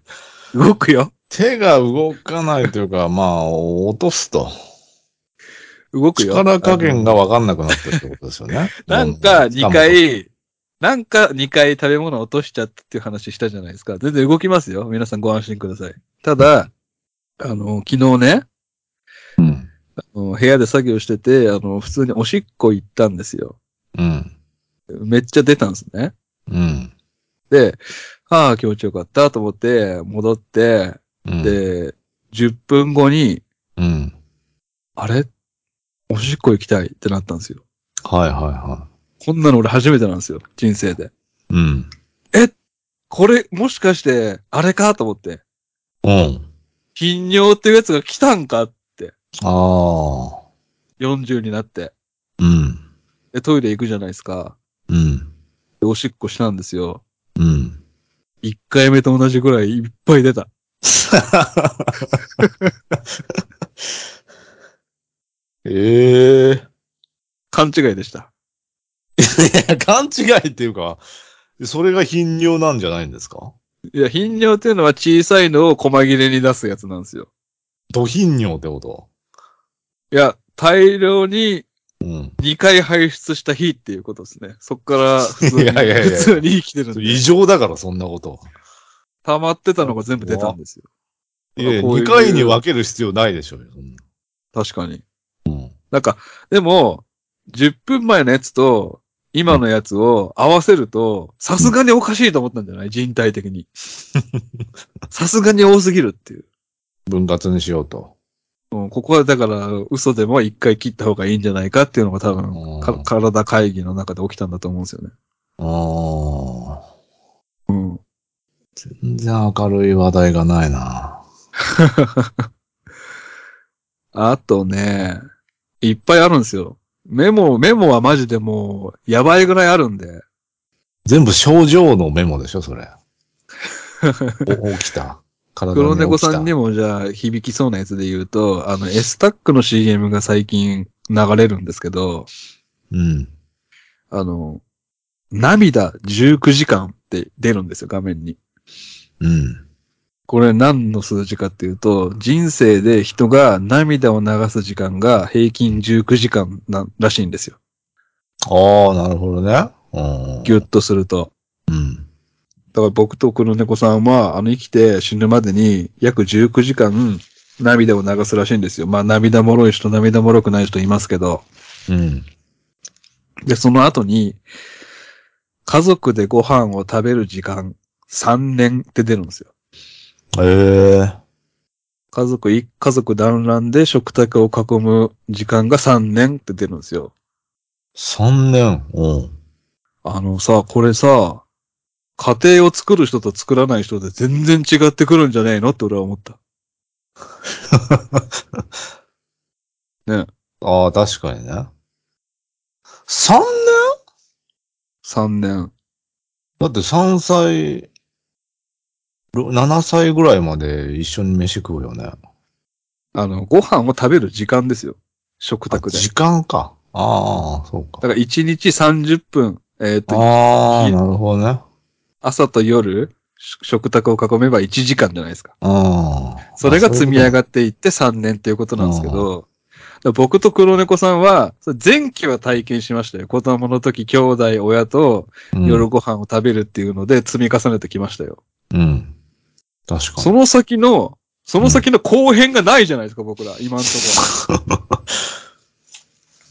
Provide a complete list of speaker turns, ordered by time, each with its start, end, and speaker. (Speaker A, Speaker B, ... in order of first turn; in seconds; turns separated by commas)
Speaker A: 0.5-1.1, Speaker B: 1.3-4.5, Speaker A: 5.9-8.0, Speaker B: 6.2-10.0, Speaker A: 8.8-10.3, Speaker A: 10.8-16.7, Speaker A: 17.4-18.4, Speaker B: 19.4-19.7, Speaker A: 20.0-23.6, Speaker B: 23.9-24.3, Speaker A: 24.9-26.1, Speaker B: 26.5-26.9, Speaker A: 27.5-33.4, Speaker B: 31.2-31.6, Speaker B: 33.8-34.1, Speaker A: 35.0-35.3, Speaker A: 36.1-37.6, Speaker B: 38.0-38.9, Speaker A: 39.2-41.1, Speaker B: 41.5-41.9, Speaker A: 43.1-45.4, Speaker B: 46.0-46.5, Speaker A: 46.9-49.1, Speaker B: 49.4-50.4, Speaker A: 51.0-51.9, Speaker B: 52.4-52.8, Speaker A: 53.3-54.5, Speaker B: 54.9-55.3, Speaker A: 55.8-57.0, Speaker B: 57.4-57.8, Speaker A: 58.4-60.5, Speaker B: 60.9-62.1, Speaker A: 62.4-62.7, Speaker B: 65.6-66.6, Speaker A: 67.5-68.3, Speaker B: 69.2-71.0, Speaker B: 71.6-73.5, Speaker A: 73.9-77.3, Speaker B: 77.9-79.1, Speaker A: 80.1-81.7, Speaker B: 82.0-82.3, Speaker A: 82.4-87.2, Speaker B: 85.4-88.5, Speaker A: 89.2-90.8, Speaker B: 89.8-90.6, Speaker B: 91.5-94.0, Speaker A: 91.6-92.6, Speaker A: 94.5-95.0, Speaker B: 95.5-95.7, Speaker A: 95.9-103.7, Speaker B: 104.2-104.6, Speaker A: 105.1-106.4, Speaker B: 107.1-108.1, Speaker A: 108.7-115.1, Speaker B: 112.5-113.1, Speaker B: 115.6-116.8, Speaker A: 117.7-118.0, Speaker B: 118.8-121.2, Speaker A: 121.8-122.3, Speaker A: 124.1-125.2, Speaker A: 125.8-130.2, Speaker B: 131.1-132.9, Speaker A: 134.0-134.5, Speaker B: 134.4-136.5, Speaker A: 135.7-142.3, Speaker B: 142.9-143.3, Speaker A: 144.1-144.6, Speaker A: 145.3-148.4, Speaker B: 149.2-149.6, Speaker A: 150.3-157.6, Speaker B: 158.5-160.6, Speaker A: 160.4-161.3, Speaker B: 161.7-162.0, Speaker A: 162.7-171.4, Speaker B: 171.9-172.2, Speaker A: 173.5-174.4, Speaker A: 175.6-179.5, Speaker B: 180.3-181.2, Speaker A: 182.1-187.1, Speaker B: 187.9-189.3, Speaker A: 190.0-191.4, Speaker A: 192.2-196.4, Speaker B: 197.7-198.6, Speaker B: 200.6-201.7, Speaker B: 203.1-203.9, Speaker A: 205.0-205.7, Speaker B: 206.6-207.9, Speaker B: 209.3-212.1, Speaker A: 213.1-216.1, Speaker B: 215.7-218.0, Speaker A: 218.0-221.0, Speaker B: 220.1-221.6, Speaker A: 222.2-225.5, Speaker B: 225.6-227.3, Speaker A: 226.6-229.4, Speaker B: 228.8-229.3, Speaker A: 230.0-238.4, Speaker B: 235.5-235.8, Speaker B: 238.7-239.1, Speaker B: 239.9-240.3, Speaker A: 240.2-244.2, Speaker B: 244.4-244.8